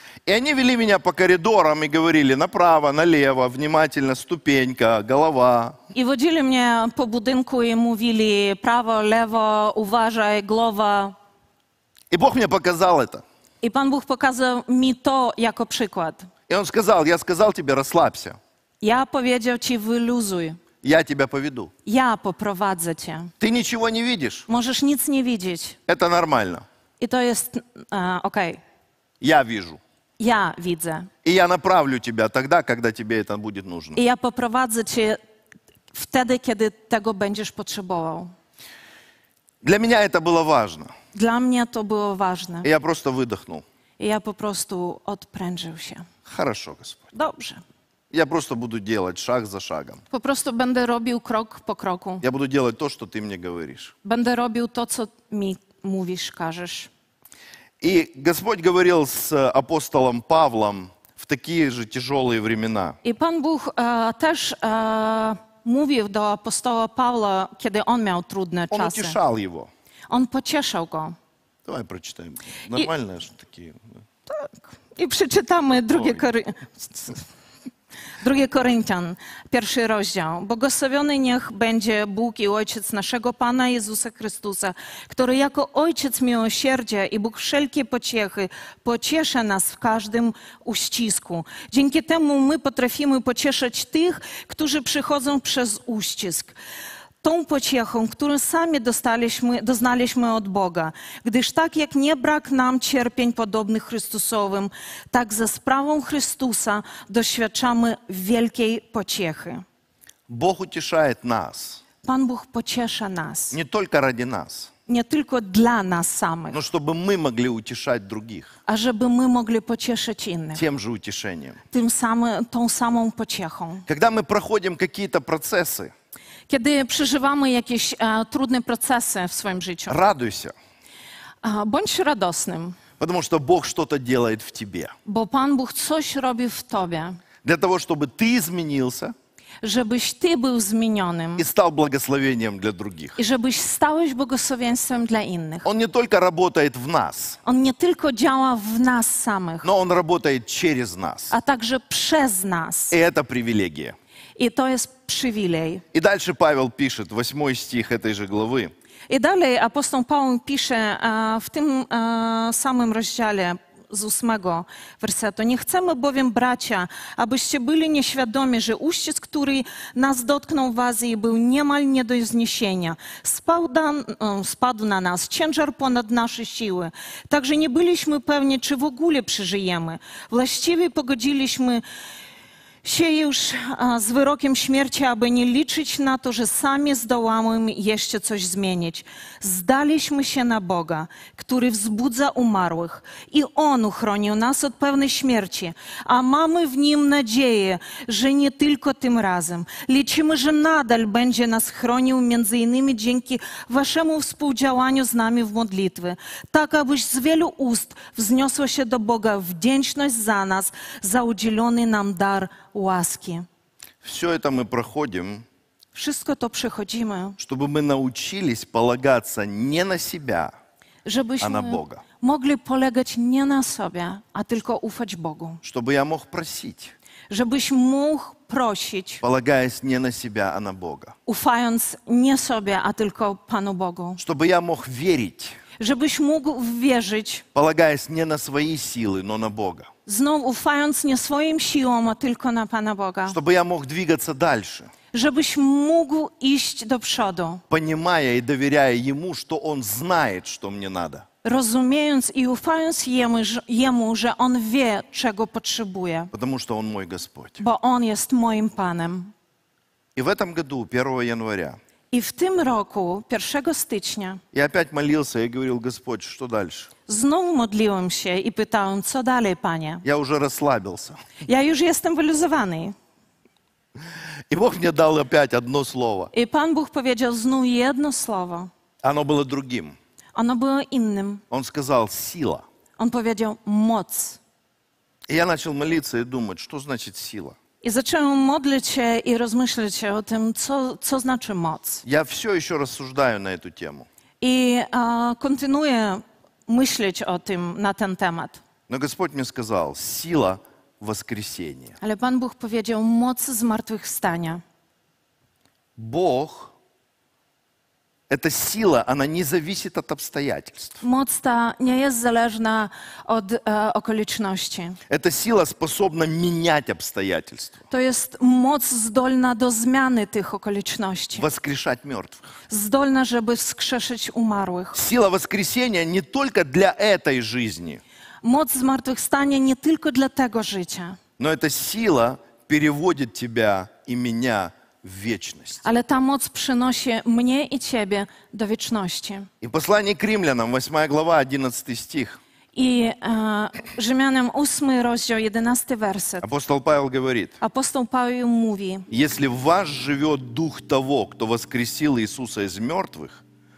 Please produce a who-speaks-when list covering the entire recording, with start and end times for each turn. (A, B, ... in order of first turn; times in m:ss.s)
0:00.3-0:05.8 A
0:05.9-0:11.2 B
0:12.1-0:13.2 A
0:13.6-0:16.3 B
0:16.5-0:18.4 A
0:18.8-0:20.6 B
0:20.8-0:21.7 A
0:21.8-0:23.3 B
0:23.4-0:24.5 A
0:24.5-0:25.8 B
0:25.9-0:26.6 A
0:27.0-0:28.6 B
0:29.2-0:29.8 A
0:30.2-0:31.1 B
0:31.2-0:34.0 A
0:34.0-0:35.2 B
0:35.9-0:38.3 B
0:39.6-0:40.9 A
0:41.1-0:42.7 B
0:42.6-0:43.6 A
0:44.0-0:46.1 B
0:46.3-0:47.1 A
0:47.1-0:47.6 B
0:48.1-0:50.0 A
0:50.1-0:52.2 B
0:52.2-0:53.9 A
0:54.0-0:56.9 B
0:57.8-1:03.0 A
1:03.0-1:09.2 B
1:08.7-1:09.7 A
1:10.1-1:11.2 B
1:11.7-1:13.9 A
1:14.3-1:17.2 B
1:18.2-1:36.6 B
1:37.2-1:49.6 B
1:50.3-1:51.8 A
1:52.0-1:53.6 B
1:53.5-1:54.7 A
1:54.9-1:56.6 B
1:56.5-1:58.6 A
1:58.7-2:00.6 B
2:00.6-2:01.6 A
2:01.7-2:03.9 B
2:03.9-2:05.9 A
2:06.5-2:10.0 B
2:09.9-2:10.5 A
2:11.4-2:12.8 B
2:13.0-2:14.9 A
2:15.0-2:17.2 B
2:17.4-2:19.1 A
2:19.6-2:21.4 B
2:21.4-2:23.2 A
2:23.2-2:25.7 B
2:25.6-2:27.4 A
2:27.4-2:29.7 B
2:29.6-2:31.4 A
2:31.3-2:33.0 B
2:32.9-2:34.0 A
2:34.4-2:35.8 B
2:35.9-2:38.7 A
2:39.1-3:01.8 B
3:02.8-3:33.5 B
3:34.0-3:35.4 A
3:35.9-3:37.4 B
3:37.4-3:40.5 A
3:41.0-3:45.6 B
3:41.4-3:42.0 A
3:45.6-3:46.9 A
3:47.3-3:49.2 B
3:49.2-3:51.2 A
3:51.3-3:54.2 B
3:54.2-3:55.6 A
3:55.8-3:57.4 B
3:57.6-3:59.9 A
4:00.1-4:03.4 B
4:03.3-4:04.9 A
4:05.1-4:07.6 B
4:07.7-4:11.3 A
4:11.4-4:16.3 B
4:16.3-4:17.6 A
4:17.6-4:19.3 B
4:20.2-4:21.8 A
4:22.1-4:24.4 B
4:24.5-4:26.9 A
4:27.1-4:30.0 B
4:30.0-4:31.2 A
4:31.4-4:32.9 B
4:34.5-4:36.3 A
4:36.3-4:38.7 B
4:39.0-4:40.0 A
4:40.4-4:41.4 B
4:41.5-4:42.6 A
4:43.0-4:44.4 B
4:45.3-4:47.6 A
4:47.8-4:52.0 B
4:52.0-4:54.1 A
4:54.4-4:58.6 B
4:58.9-5:02.0 A
5:02.0-5:04.6 B
5:06.0-5:06.7 A
5:08.3-5:11.0 A
5:11.0-5:15.0 B
5:15.1-5:17.8 A
5:17.9-5:21.4 B
5:21.4-5:22.4 A
5:22.7-5:25.0 B
5:24.9-5:28.0 A
5:28.4-5:31.2 B
5:31.4-5:35.8 A
5:35.8-5:39.5 B
5:39.6-5:42.4 A
5:42.7-5:46.5 B
5:46.4-5:47.6 A
5:47.6-5:49.1 B
5:49.1-5:53.4 A